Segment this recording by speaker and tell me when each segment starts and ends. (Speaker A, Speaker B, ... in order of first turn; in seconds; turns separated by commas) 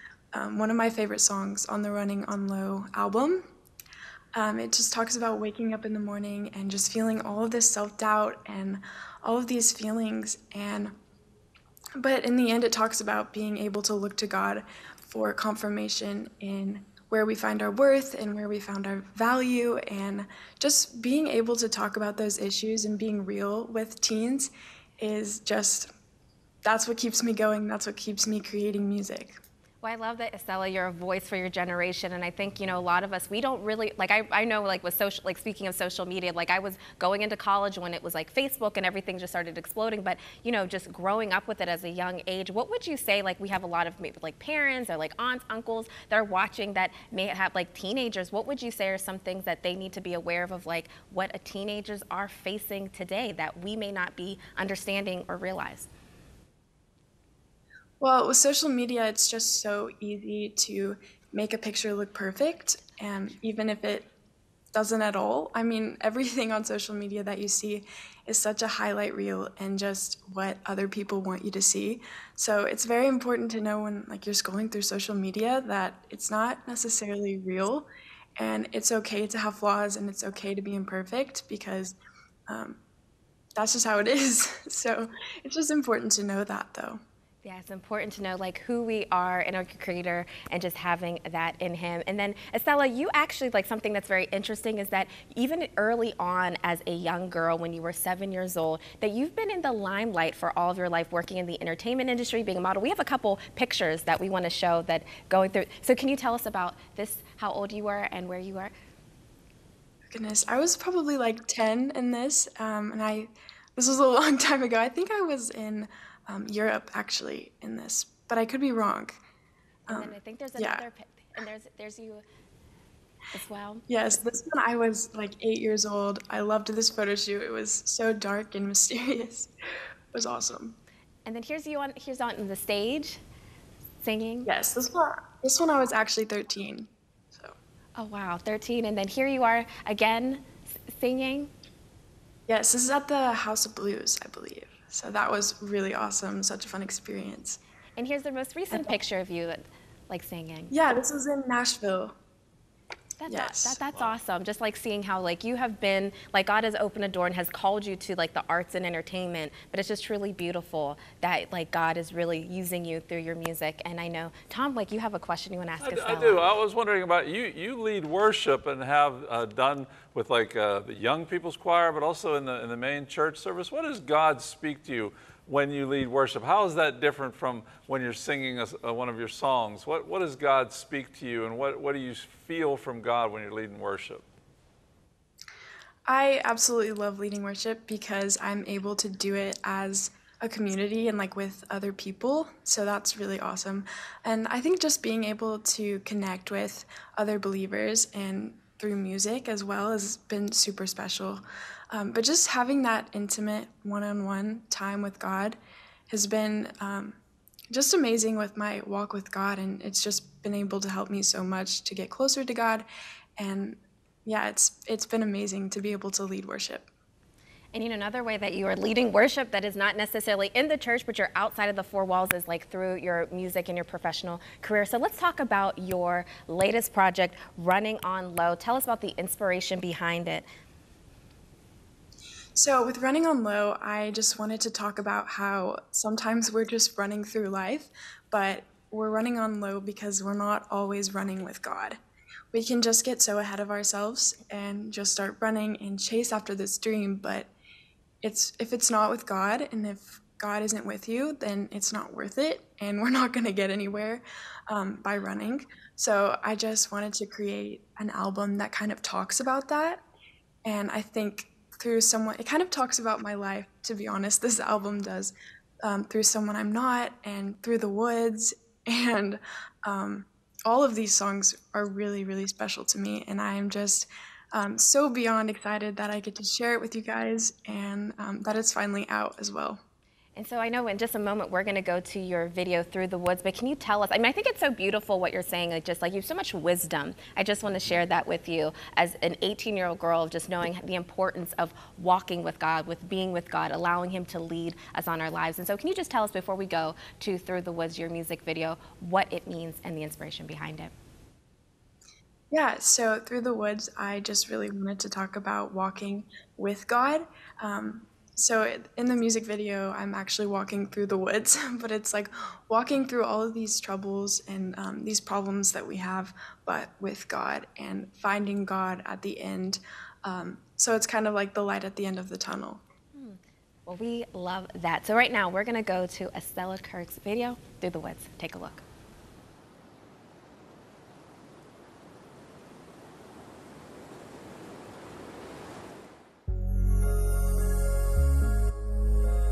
Speaker A: 0.3-3.5, Speaker A: 4.3-10.9, Speaker A: 12.0-25.9, Speaker A: 26.6-29.4, Speaker B: 29.8-55.9, Speaker A: 58.0-64.1, Speaker A: 64.7-82.0, Speaker A: 82.5-82.8, Speaker A: 83.6-87.0, Speaker B: 87.4-108.7, Speaker A: 110.1-119.2, Speaker A: 119.9-120.8, Speaker B: 119.9-122.2, Speaker B: 123.3-123.9, Speaker A: 123.9-129.5, Speaker A: 130.1-130.8, Speaker B: 131.3-133.2, Speaker B: 134.0-134.5, Speaker A: 134.4-137.6, Speaker B: 138.0-141.5, Speaker A: 142.5-147.6, Speaker B: 148.0-150.7, Speaker A: 150.7-152.2, Speaker B: 153.2-166.5, Speaker A: 153.3-153.8, Speaker C: 165.8-184.2, Speaker A: 186.1-205.6, Speaker A: 206.1-207.2, Speaker A: 207.7-212.9, Speaker A: 213.4-216.9, Speaker B: 217.7-230.5, Speaker A: 232.6-242.0, Speaker A: 242.5-247.5, Speaker A: 248.2-260.0, Speaker A: 260.6-279.8, Speaker B: 280.4-300.9, Speaker A: 302.5-322.8, Speaker B: 323.1-328.8